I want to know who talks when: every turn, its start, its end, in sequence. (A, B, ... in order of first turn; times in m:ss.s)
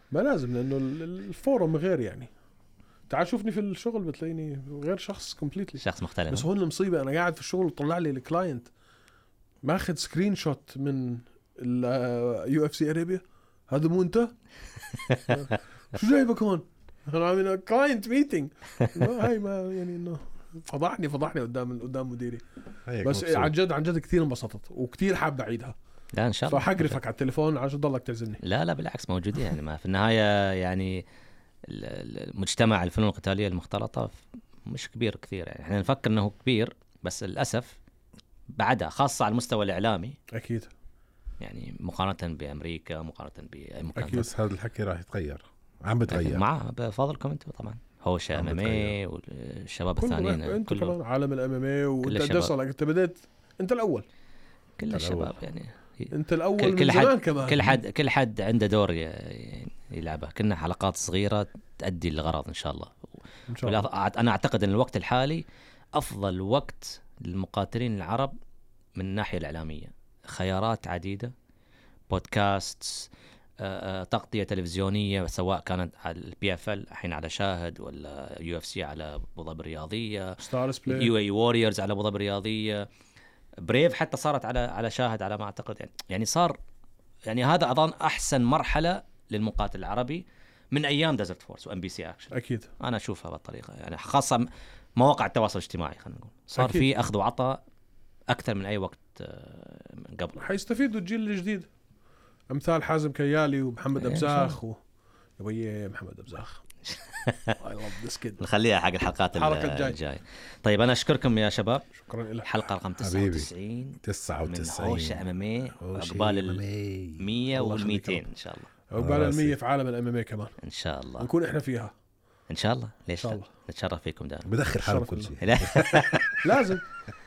0:00.1-0:02.3 A
0:03.1-0:08.7 A
0:05.8-0:06.5 B
0:09.6-0:14.3 A
0:15.3-0:22.4 A
0:22.9-0:23.5 C
0:23.0-0:25.7 A
0:26.1-0:27.0 B
0:26.5-0:28.4 A
0:28.4-0:31.0 B
0:31.6-0:37.8 B
0:38.5-0:40.2 B
0:40.3-0:40.7 A
0:41.4-0:44.2 B
0:44.0-0:44.2 A
0:44.0-0:46.4 C
0:46.1-0:50.9 B
0:48.3-0:49.0 C
0:50.0-0:54.0 A
0:52.0-0:52.5 B
0:54.8-1:03.0 B
0:54.9-0:55.4 C
0:56.1-0:57.8 A
1:03.5-1:03.8 A
1:03.6-1:08.3 B
1:09.0-1:11.3 B
1:12.1-1:13.1 B
1:13.6-1:22.9 B
1:20.4-1:21.1 A
1:23.6-1:26.6 B
1:27.3-1:37.6 B
1:32.3-1:32.7 A
1:36.6-1:36.9 A
1:38.3-1:40.5 B
1:40.4-1:41.7 A
1:42.5-1:44.8 A
1:44.0-1:44.6 B
1:45.4-1:46.6 A
1:46.9-1:47.6 B
1:47.6-1:48.4 A
1:48.4-1:51.8 B
1:49.3-1:50.0 A
1:51.9-1:52.7 A
1:52.4-1:56.6 B
1:53.0-1:53.5 C
1:54.0-1:55.2 C
1:55.8-1:57.2 C
1:57.2-1:58.7 B
1:57.5-1:58.2 A
1:58.9-2:00.5 A
1:58.9-1:59.6 C
2:00.6-2:01.3 B
2:01.2-2:01.9 A
2:02.5-2:04.5 B
2:03.2-2:03.4 A
2:04.5-2:06.2 C
2:04.8-2:05.3 A
2:05.4-2:06.3 B
2:06.4-2:06.8 A